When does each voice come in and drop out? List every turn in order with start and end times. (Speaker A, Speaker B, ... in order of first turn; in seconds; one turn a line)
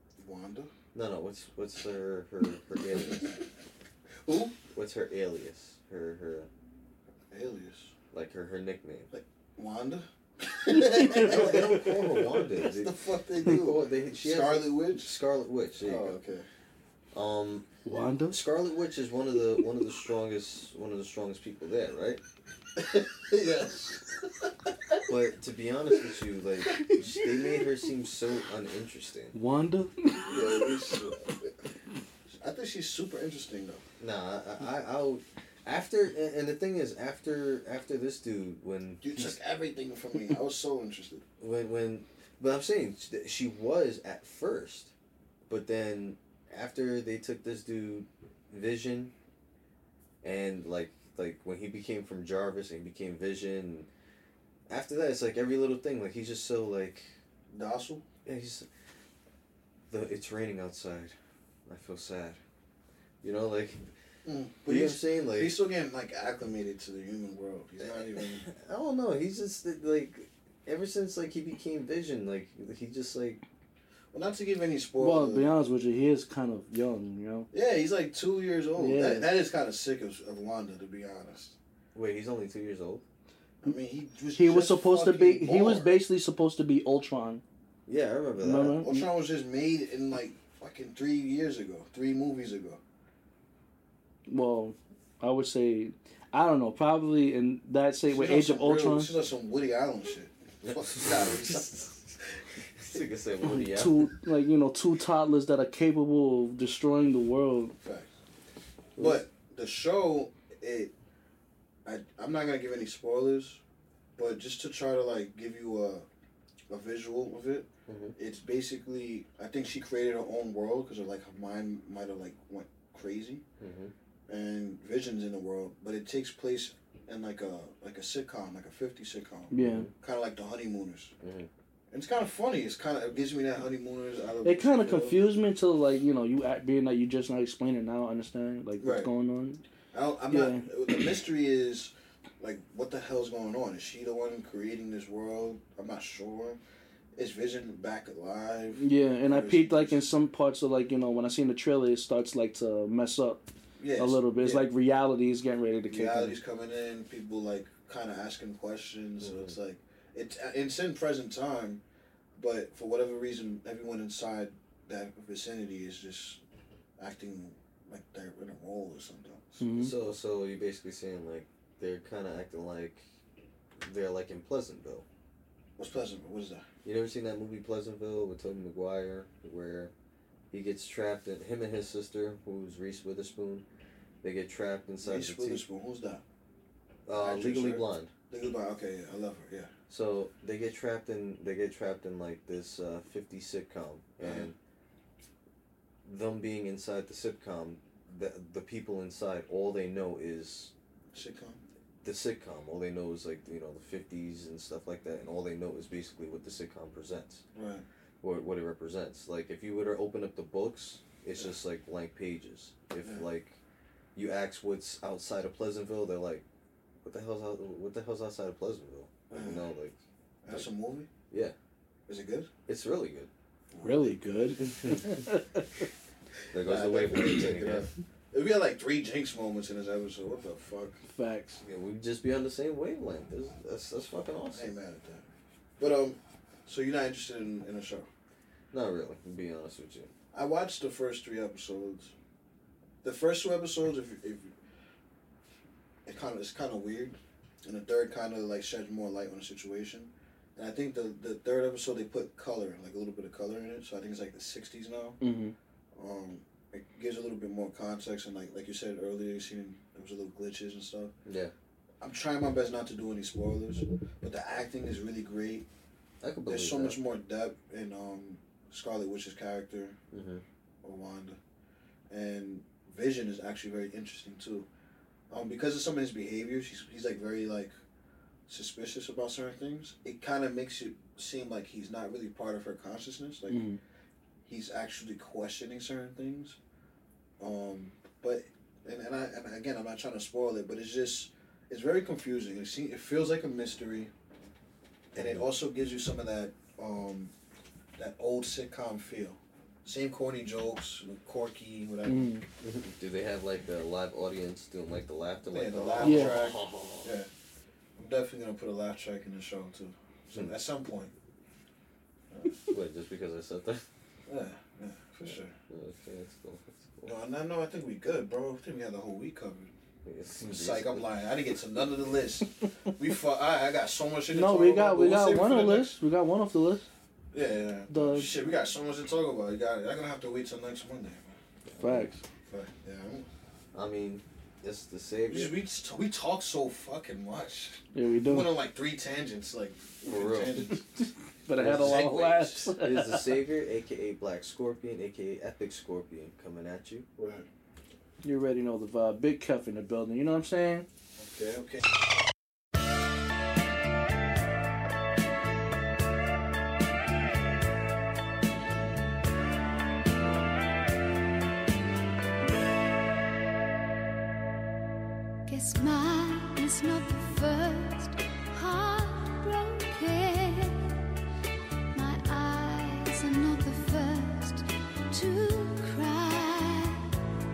Speaker A: 0.2-0.7
Speaker B: 0.9-3.4
Speaker A: 4.2-4.6
Speaker B: 4.7-6.5
Speaker A: 7.3-7.9
Speaker B: 8.1-9.1
Speaker A: 9.1-15.1
Speaker C: 10.7-11.9
Speaker B: 11.1-16.1
Speaker A: 15.8-16.5
Speaker B: 17.1-17.7
Speaker C: 17.9-18.4
Speaker B: 18.3-22.2
Speaker A: 22.8-24.9
Speaker B: 25.1-29.4
Speaker C: 29.3-30.6
Speaker A: 30.2-31.6
Speaker A: 32.3-33.8
Speaker B: 34.0-39.3
Speaker A: 39.0-41.2
Speaker B: 41.4-44.9
Speaker B: 45.5-49.1
Speaker B: 50.2-53.9
Speaker B: 54.7-57.1
Speaker A: 57.5-58.1
Speaker B: 58.2-58.7
Speaker B: 59.9-61.1
Speaker B: 61.7-62.4
Speaker B: 63.2-63.8
Speaker A: 64.2-68.5
Speaker B: 64.7-65.6
Speaker B: 68.4-73.4
Speaker A: 74.1-75.6
Speaker C: 75.0-77.5
Speaker A: 77.5-81.6
Speaker C: 78.8-79.3
Speaker B: 81.9-83.0
Speaker A: 83.6-86.0
Speaker C: 84.4-87.4
Speaker B: 87.9-88.8
Speaker C: 88.4-89.1
Speaker A: 88.8-92.8
Speaker C: 94.3-99.2
Speaker A: 98.1-102.0
Speaker B: 100.9-101.8
Speaker B: 102.8-104.1
Speaker C: 103.4-107.7
Speaker A: 107.8-108.1
Speaker B: 109.0-109.2
Speaker A: 109.0-110.9
Speaker A: 111.8-113.6
Speaker A: 114.2-116.1
Speaker A: 116.7-123.4
Speaker B: 117.9-118.2
Speaker B: 123.6-123.9
Speaker A: 124.3-131.1
Speaker C: 129.5-129.9
Speaker B: 129.6-129.9
Speaker B: 131.2-131.5
Speaker A: 131.9-135.3
Speaker C: 134.4-139.6
Speaker A: 138.8-139.1
Speaker A: 139.9-146.6
Speaker C: 140.3-140.7
Speaker A: 147.2-150.1
Speaker C: 148.8-153.4
Speaker A: 153.8-154.7
Speaker C: 154.0-156.4
Speaker A: 155.9-161.8
Speaker B: 159.2-159.5
Speaker A: 162.4-166.4
Speaker A: 167.0-169.9
Speaker C: 169.6-169.9
Speaker B: 169.8-173.1
Speaker B: 173.8-175.1
Speaker A: 175.8-176.7
Speaker B: 176.8-179.9
Speaker B: 180.5-183.7
Speaker B: 184.2-185.6
Speaker A: 185.0-186.2
Speaker B: 187.1-188.1
Speaker A: 187.1-189.7
Speaker B: 189.9-194.6
Speaker A: 194.2-194.5
Speaker B: 196.1-200.7
Speaker A: 201.1-201.6
Speaker B: 202.0-207.4
Speaker A: 207.6-207.8
Speaker B: 208.2-213.6
Speaker B: 214.2-216.4
Speaker B: 217.0-220.0
Speaker A: 219.3-219.7
Speaker A: 220.4-221.1
Speaker B: 221.3-221.6
Speaker A: 222.1-222.5
Speaker B: 222.7-223.3
Speaker A: 223.7-224.6
Speaker C: 223.8-225.6
Speaker B: 224.6-225.2
Speaker B: 226.5-227.9
Speaker A: 226.6-231.0
Speaker C: 231.1-231.6
Speaker B: 231.6-234.7
Speaker A: 234.5-235.3
Speaker A: 235.8-238.1
Speaker B: 238.7-240.1
Speaker A: 240.3-242.1
Speaker A: 243.0-244.5
Speaker A: 246.1-255.2
Speaker C: 255.2-255.5
Speaker A: 255.9-261.1
Speaker B: 261.3-261.5
Speaker A: 262.0-265.7
Speaker B: 266.2-267.0
Speaker A: 266.5-270.0
Speaker B: 270.1-270.4
Speaker A: 270.8-271.4
Speaker A: 272.1-274.7
Speaker A: 275.3-277.7
Speaker A: 278.5-283.6
Speaker C: 283.5-283.8
Speaker A: 284.5-286.6
Speaker A: 287.4-294.1
Speaker A: 295.1-297.3
Speaker B: 295.2-295.5
Speaker A: 298.0-302.3
Speaker C: 302.1-302.4
Speaker B: 302.6-307.1
Speaker A: 305.5-307.3
Speaker C: 306.0-306.4
Speaker A: 308.0-311.1
Speaker A: 312.3-312.6
Speaker B: 312.6-313.9
Speaker A: 314.3-315.6
Speaker B: 315.7-317.1
Speaker A: 317.0-319.7
Speaker B: 320.1-321.1
Speaker A: 320.4-326.0
Speaker C: 324.3-326.9
Speaker A: 327.3-331.3
Speaker C: 327.9-328.3
Speaker B: 331.7-332.1
Speaker C: 331.8-332.2
Speaker A: 332.4-333.3
Speaker B: 333.7-335.6
Speaker A: 335.3-340.8
Speaker C: 337.9-338.5
Speaker B: 340.0-340.8
Speaker C: 341.5-343.3
Speaker A: 341.6-342.7
Speaker B: 341.6-342.1
Speaker B: 342.8-347.1
Speaker A: 347.2-347.5
Speaker C: 348.2-350.9
Speaker A: 351.2-351.9
Speaker D: 365.5-371.0
Speaker D: 371.9-377.1